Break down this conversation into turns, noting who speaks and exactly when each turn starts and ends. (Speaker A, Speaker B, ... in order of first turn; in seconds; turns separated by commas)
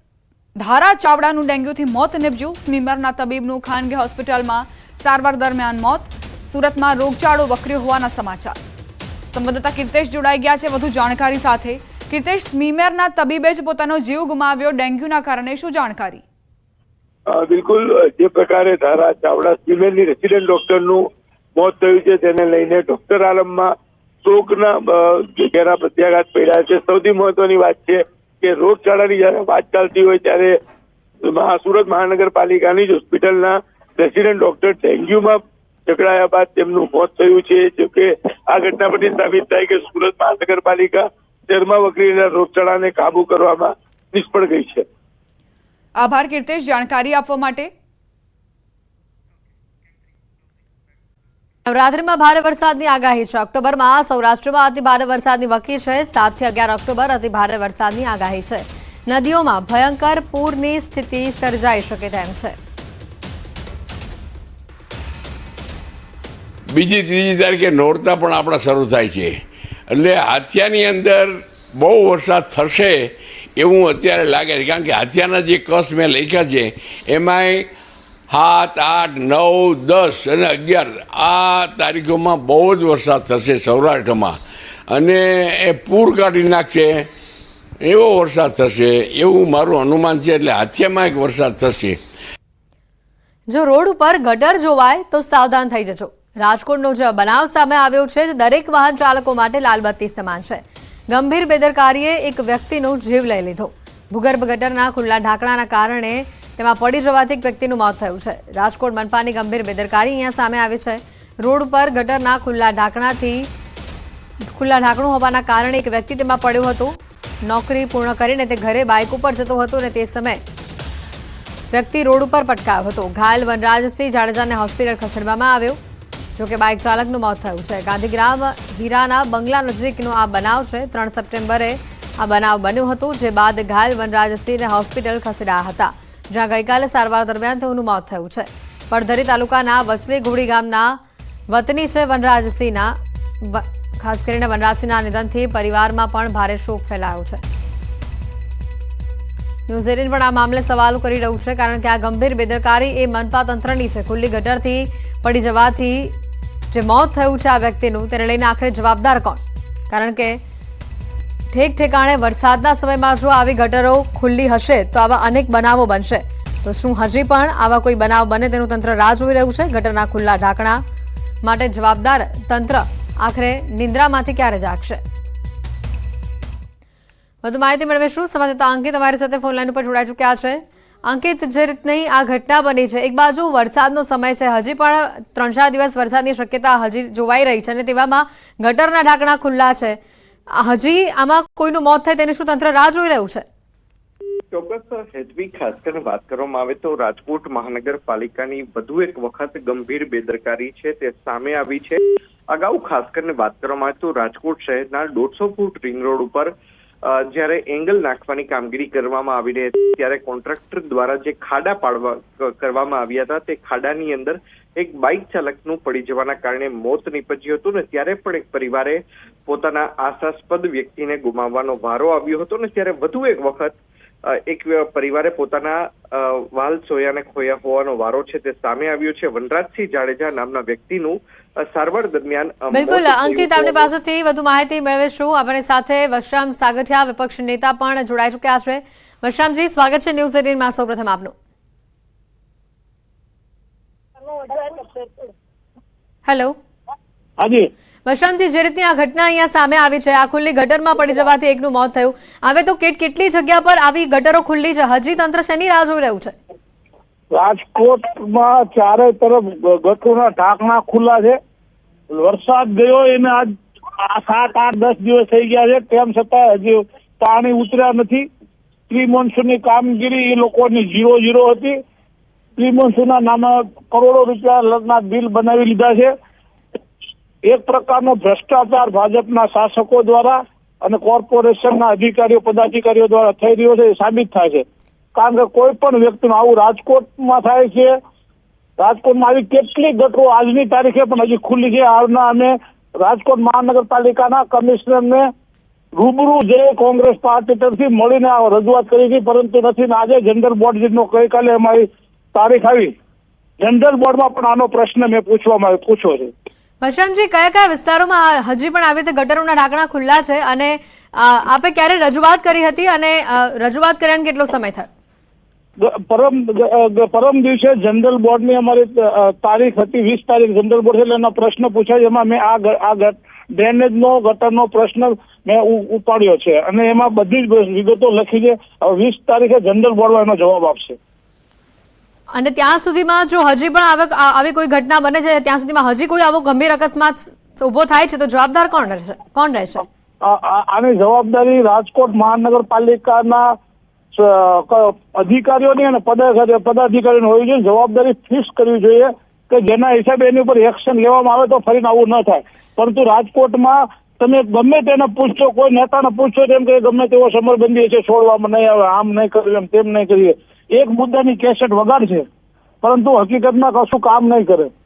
Speaker A: 0.6-8.6, Speaker A: 9.3-16.2, Speaker B: 17.3-21.0, Speaker B: 21.6-23.7, Speaker B: 24.2-30.5, Speaker B: 31.3-44.8, Speaker A: 46.0-47.7, Speaker C: 51.7-62.5, Speaker D: 66.7-77.7, Speaker D: 78.3-87.1, Speaker D: 87.8-92.0, Speaker C: 93.5-113.5, Speaker C: 114.5-120.4, Speaker C: 121.7-125.8, Speaker C: 126.4-141.0, Speaker C: 141.5-147.4, Speaker C: 149.7-156.1, Speaker C: 156.7-159.4, Speaker C: 159.9-160.4, Speaker C: 161.5-170.8, Speaker C: 171.4-175.0, Speaker C: 177.4-190.0, Speaker C: 190.6-193.4, Speaker E: 194.5-206.5, Speaker E: 207.3-223.7, Speaker E: 224.5-233.9, Speaker C: 232.7-241.3, Speaker F: 244.6-245.0, Speaker C: 246.3-246.6, Speaker F: 247.4-247.7, Speaker C: 248.1-256.3, Speaker F: 257.3-261.4, Speaker F: 262.1-268.3, Speaker F: 268.9-271.8, Speaker F: 272.6-276.1, Speaker F: 277.4-288.0, Speaker F: 288.8-295.3, Speaker F: 295.9-302.9, Speaker F: 303.6-306.3, Speaker C: 306.8-314.9, Speaker F: 315.8-331.0, Speaker C: 332.3-339.9, Speaker F: 340.2-343.6, Speaker F: 344.1-362.2, Speaker F: 362.8-364.7